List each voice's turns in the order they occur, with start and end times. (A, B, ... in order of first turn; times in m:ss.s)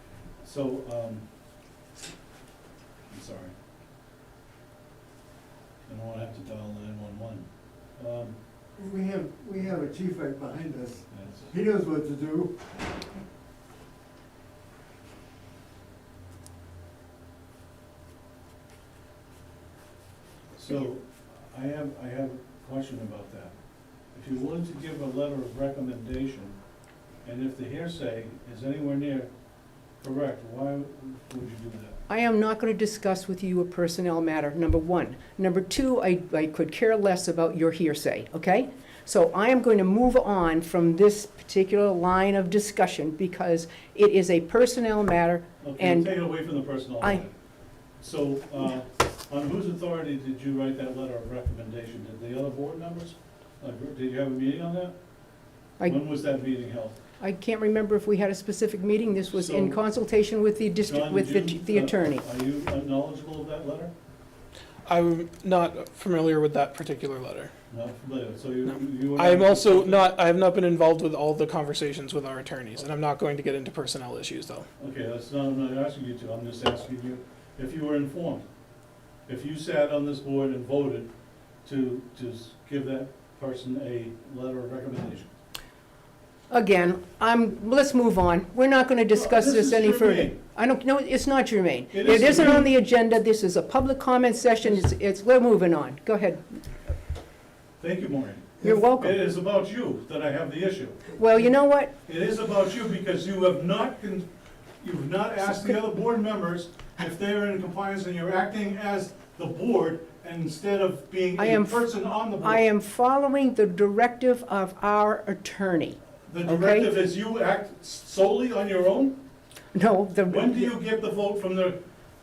0:00.4-0:01.2 A
0:03.1-0:03.5 A
0:05.8-0:08.4 A
0:08.8-0:12.6 B
0:11.1-0:11.5 A
0:20.5-0:23.6 A
0:24.1-0:26.6 A
0:27.2-0:29.3 A
0:30.0-0:32.0 A
0:32.1-0:46.2 C
0:45.6-0:47.3 A
0:48.0-0:55.0 A
0:55.8-0:57.0 A
0:57.2-1:02.2 C
0:59.3-0:59.8 A
1:00.8-1:03.9 A
1:04.8-1:07.5 D
1:07.7-1:10.1 A
1:09.2-1:14.6 D
1:14.8-1:18.4 A
1:19.3-1:21.1 A
1:21.6-1:25.3 A
1:26.5-1:36.4 C
1:29.1-1:30.4 A
1:31.9-1:32.7 A
1:37.8-1:41.1 A
1:38.6-1:39.2 C
1:41.1-1:41.9 C
1:42.0-1:44.3 A
1:44.8-1:52.6 A
1:51.4-1:56.9 C
1:56.2-1:59.2 A
1:59.7-2:00.7 C
2:00.3-2:01.8 A